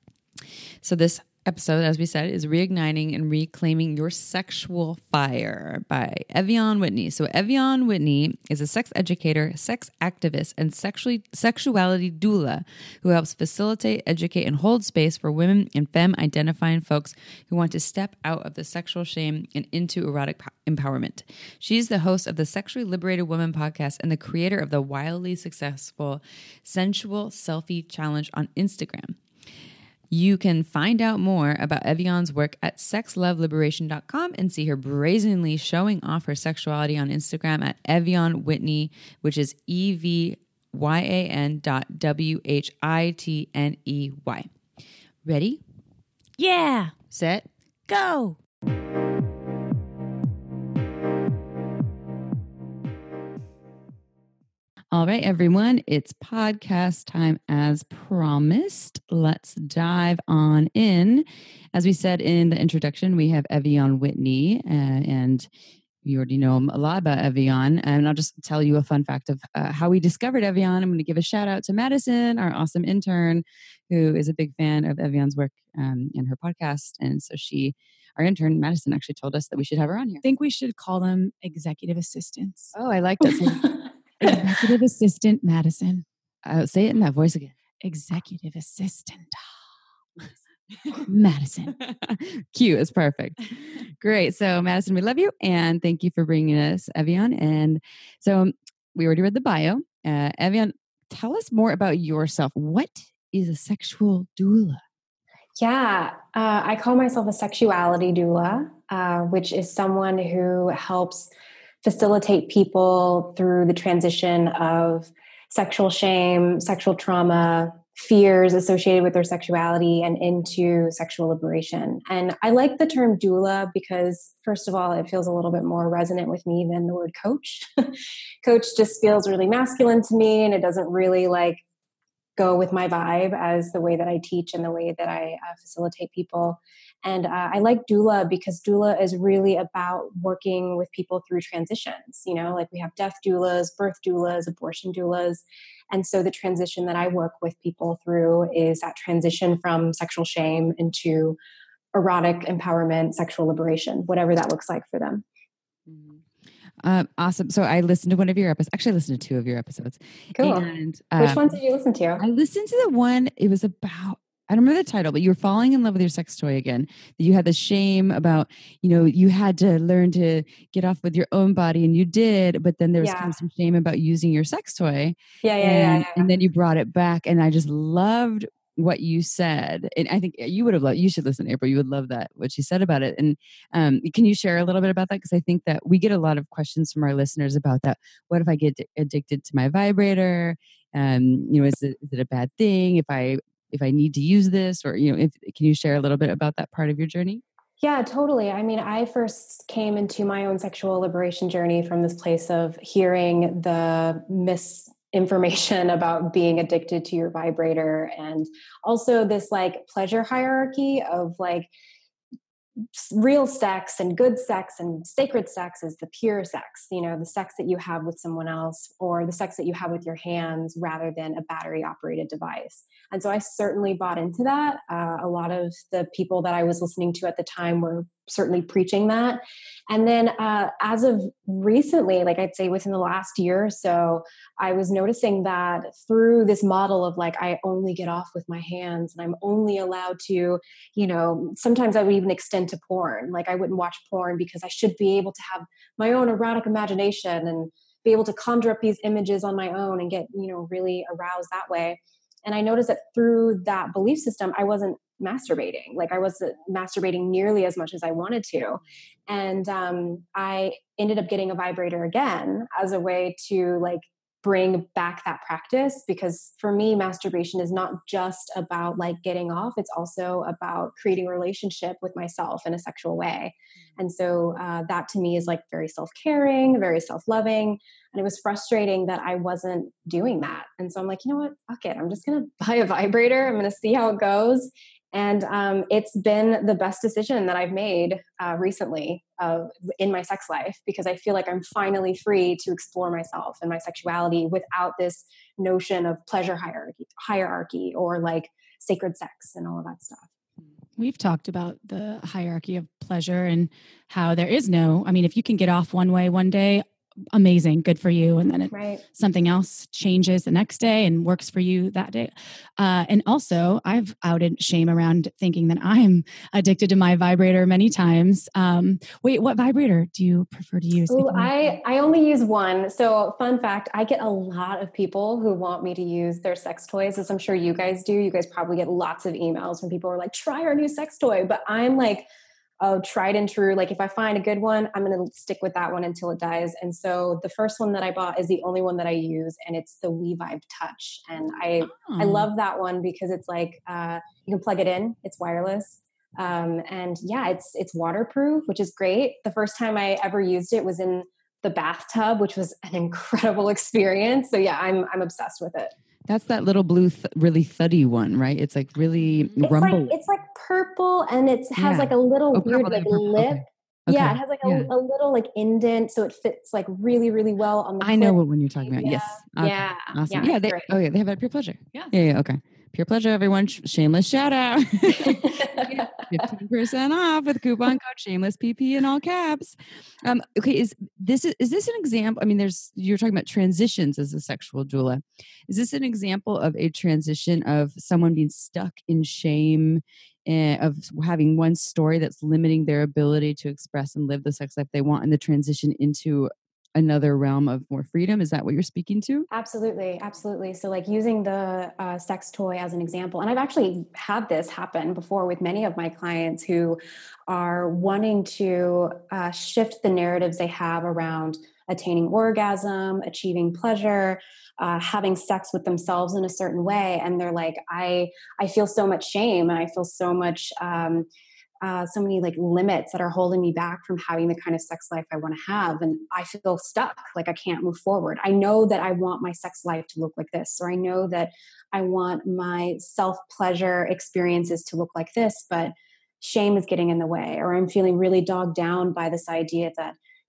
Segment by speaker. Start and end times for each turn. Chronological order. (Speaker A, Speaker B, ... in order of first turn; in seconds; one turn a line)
Speaker A: 0.8-29.2
Speaker A: 30.1-44.5
Speaker A: 45.3-45.6
Speaker B: 46.4-47.0
Speaker A: 47.1-47.5
Speaker B: 47.9-48.4
Speaker A: 54.9-65.5
Speaker A: 66.0-80.2
Speaker B: 80.2-82.8
Speaker A: 82.8-83.7
Speaker B: 84.2-86.0
Speaker A: 86.5-87.5
Speaker B: 87.8-89.5
Speaker B: 91.0-91.8
Speaker A: 91.8-93.4
Speaker A: 94.0-104.8
Speaker C: 105.6-111.3
Speaker C: 111.8-131.6
Speaker C: 132.4-151.4
Speaker C: 151.9-155.2
Speaker A: 155.9-156.2
Speaker A: 156.8-161.6
Speaker C: 160.4-160.7
Speaker C: 161.2-162.2
Speaker A: 162.2-197.4
Speaker C: 173.0-173.4
Speaker C: 175.4-176.3
Speaker C: 197.8-211.7
Speaker C: 212.9-300.3
Speaker B: 301.0-321.6
Speaker C: 308.7-309.0
Speaker C: 321.1-332.3
Speaker C: 332.8-355.9
Speaker B: 341.8-342.5
Speaker A: 356.3-360.1
Speaker C: 359.6-370.9
Speaker A: 361.8-364.9
Speaker A: 368.0-399.5
Speaker C: 375.2-376.1
Speaker C: 399.5-421.3
Speaker C: 421.8-440.2